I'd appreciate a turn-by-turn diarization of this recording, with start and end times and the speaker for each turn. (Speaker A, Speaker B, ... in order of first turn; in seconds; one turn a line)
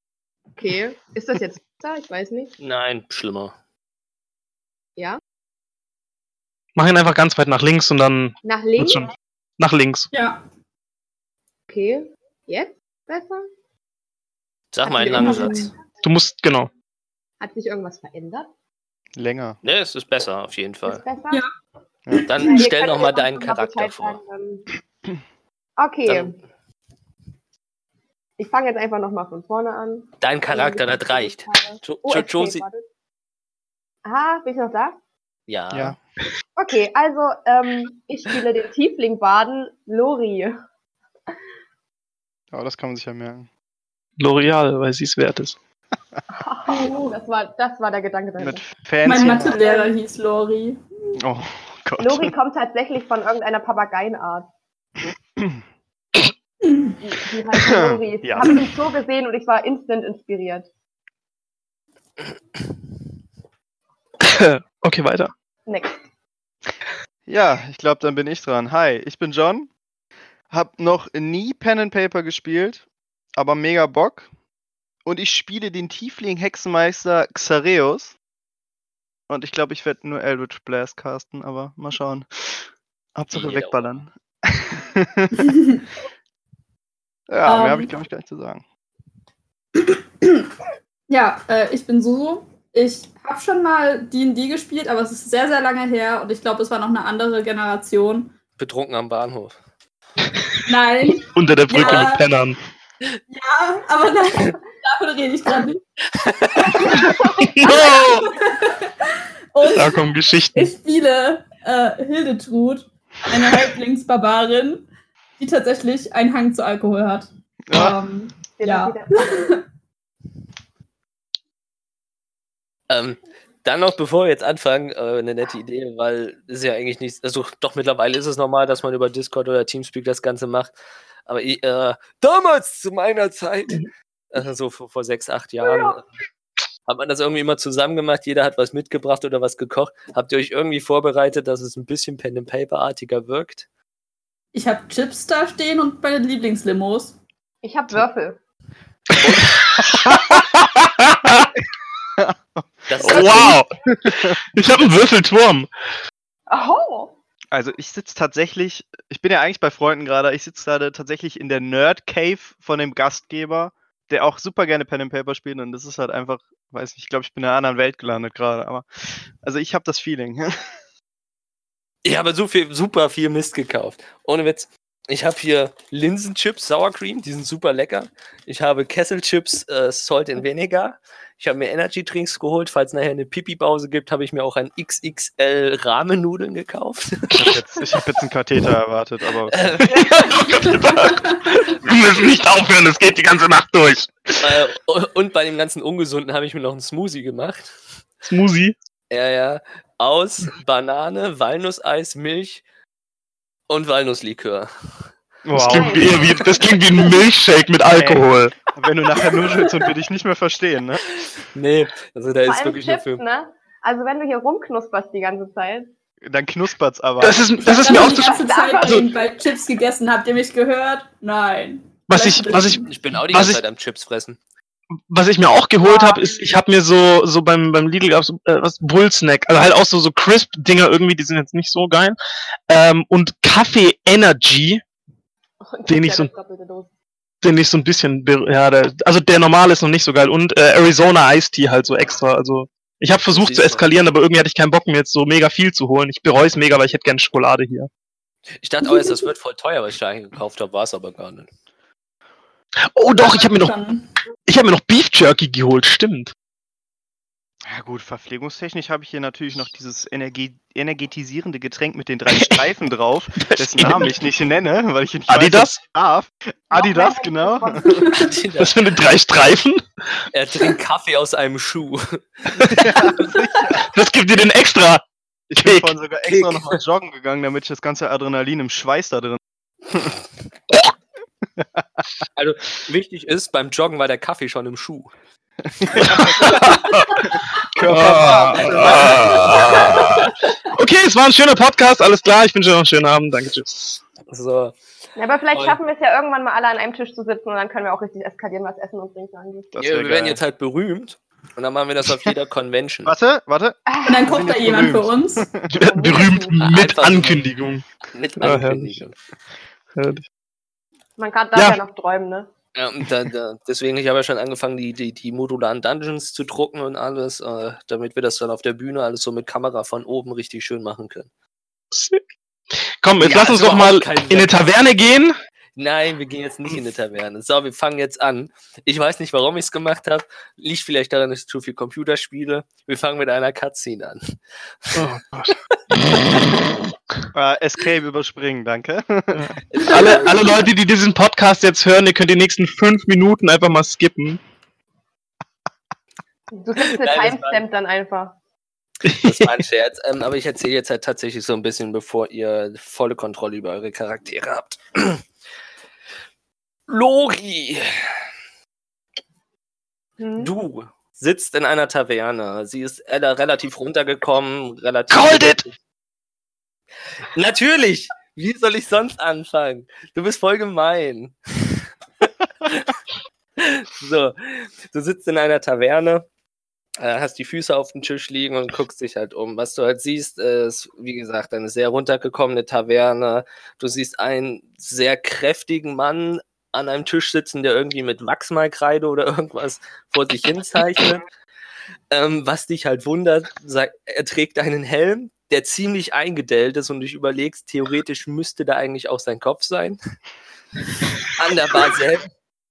Speaker A: 0.6-2.5
Speaker B: 2.6-3.5
Speaker C: 6.8-10.1
Speaker A: 8.4-9.1
Speaker D: 10.1-10.4
Speaker A: 11.7-13.5
Speaker B: 14.7-15.7
Speaker A: 14.8-15.7
Speaker D: 15.1-15.7
Speaker C: 16.0-16.7
Speaker A: 17.4-18.5
Speaker E: 19.2-19.6
Speaker B: 19.6-21.0
Speaker A: 20.9-21.4
Speaker D: 22.2-22.6
Speaker B: 22.2-24.2
Speaker A: 22.4-24.7
Speaker A: 25.8-26.4
Speaker B: 26.1-26.4
Speaker A: 28.4-32.9
Speaker B: 30.2-32.6
Speaker A: 34.0-35.0
Speaker B: 35.5-36.0
Speaker E: 35.7-36.0
Speaker A: 36.6-40.6
Speaker E: 42.5-43.5
Speaker C: 44.2-45.6
Speaker A: 46.3-49.9
Speaker D: 46.7-47.1
Speaker E: 48.4-49.6
Speaker D: 49.0-50.8
Speaker E: 51.2-52.3
Speaker A: 52.0-54.5
Speaker D: 56.7-56.9
Speaker A: 57.0-60.7
Speaker E: 57.6-58.5
Speaker C: 64.2-65.3
Speaker A: 65.7-66.0
Speaker E: 67.3-69.7
Speaker E: 70.5-72.8
Speaker E: 73.4-74.3
Speaker E: 75.0-78.2
Speaker E: 79.3-85.5
Speaker B: 83.3-83.9
Speaker D: 85.4-85.8
Speaker E: 87.3-88.6
Speaker D: 87.5-87.9
Speaker D: 89.8-90.5
Speaker D: 91.1-98.3
Speaker B: 98.6-99.6
Speaker D: 100.7-102.2
Speaker C: 101.3-102.6
Speaker D: 103.3-105.8
Speaker B: 106.1-106.8
Speaker D: 106.7-107.1
Speaker C: 106.9-108.3
Speaker A: 107.1-107.9
Speaker D: 107.7-114.9
Speaker C: 109.7-110.7
Speaker D: 115.4-119.6
Speaker E: 117.7-118.0
Speaker A: 118.5-119.5
Speaker B: 122.9-130.7
Speaker B: 131.3-136.1
Speaker B: 136.9-143.7
Speaker D: 144.5-147.2
Speaker A: 147.6-148.4
Speaker B: 149.2-149.5
Speaker C: 149.2-151.5
Speaker E: 152.2-152.7
Speaker B: 152.9-153.6
Speaker C: 153.0-155.7
Speaker E: 154.1-154.3
Speaker A: 156.5-157.1
Speaker E: 157.5-168.9
Speaker E: 169.4-170.5
Speaker B: 172.1-187.5
Speaker E: 187.3-190.1
Speaker B: 189.5-190.3
Speaker C: 189.9-194.1
Speaker B: 194.4-197.7
Speaker C: 198.2-198.8
Speaker B: 199.1-202.6
Speaker B: 203.7-204.7
Speaker E: 205.4-206.1
Speaker C: 205.5-208.5
Speaker A: 205.6-206.7
Speaker E: 208.0-211.0
Speaker B: 211.5-213.2
Speaker A: 212.4-215.9
Speaker E: 216.3-217.5
Speaker C: 217.2-219.1
Speaker D: 217.6-222.9
Speaker A: 217.6-219.3
Speaker C: 222.1-223.6
Speaker B: 222.9-224.4
Speaker C: 225.1-232.2
Speaker A: 225.8-226.5
Speaker C: 232.7-234.8
Speaker A: 235.6-236.9
Speaker C: 235.9-236.3
Speaker C: 237.4-247.9
Speaker B: 243.3-243.8
Speaker B: 248.6-251.5
Speaker C: 252.9-253.8
Speaker D: 253.2-254.1
Speaker C: 254.5-256.3
Speaker E: 257.7-268.0
Speaker C: 262.3-262.6
Speaker C: 263.4-264.1
Speaker C: 265.3-265.8
Speaker A: 266.7-268.2
Speaker B: 268.1-268.8
Speaker C: 268.6-269.8
Speaker B: 270.3-273.3
Speaker C: 272.6-273.0
Speaker E: 272.8-273.9
Speaker C: 273.9-275.1
Speaker E: 275.5-280.2
Speaker C: 275.6-275.9
Speaker B: 276.3-276.8
Speaker E: 281.6-281.8
Speaker B: 282.4-285.1
Speaker E: 285.8-286.8
Speaker C: 286.0-287.3
Speaker B: 287.8-289.2
Speaker E: 287.8-289.8
Speaker C: 287.9-294.0
Speaker B: 294.3-294.8
Speaker A: 295.2-299.8
Speaker B: 295.5-295.8
Speaker E: 299.7-300.4
Speaker B: 299.8-303.1
Speaker E: 303.1-305.7
Speaker A: 303.9-304.2
Speaker D: 304.1-305.5
Speaker C: 305.7-307.9
Speaker A: 305.8-306.6
Speaker B: 306.6-307.5
Speaker B: 308.1-309.1
Speaker C: 308.4-309.0
Speaker C: 310.0-310.3
Speaker A: 311.2-312.5
Speaker C: 311.6-311.8
Speaker B: 312.8-321.3
Speaker C: 321.9-322.2
Speaker C: 323.0-325.3
Speaker B: 323.2-324.7
Speaker B: 325.8-334.3
Speaker C: 334.9-336.6
Speaker E: 337.4-339.6
Speaker B: 339.7-340.5
Speaker C: 339.9-344.4
Speaker A: 346.5-348.4
Speaker B: 346.8-347.6
Speaker C: 349.0-349.6
Speaker B: 349.2-355.2
Speaker B: 356.9-358.2
Speaker A: 360.2-360.5
Speaker B: 360.4-365.7
Speaker C: 365.1-365.6
Speaker B: 367.3-371.8
Speaker B: 372.6-373.0
Speaker B: 373.6-376.3
Speaker B: 377.0-391.2
Speaker B: 392.1-400.0
Speaker B: 401.2-402.3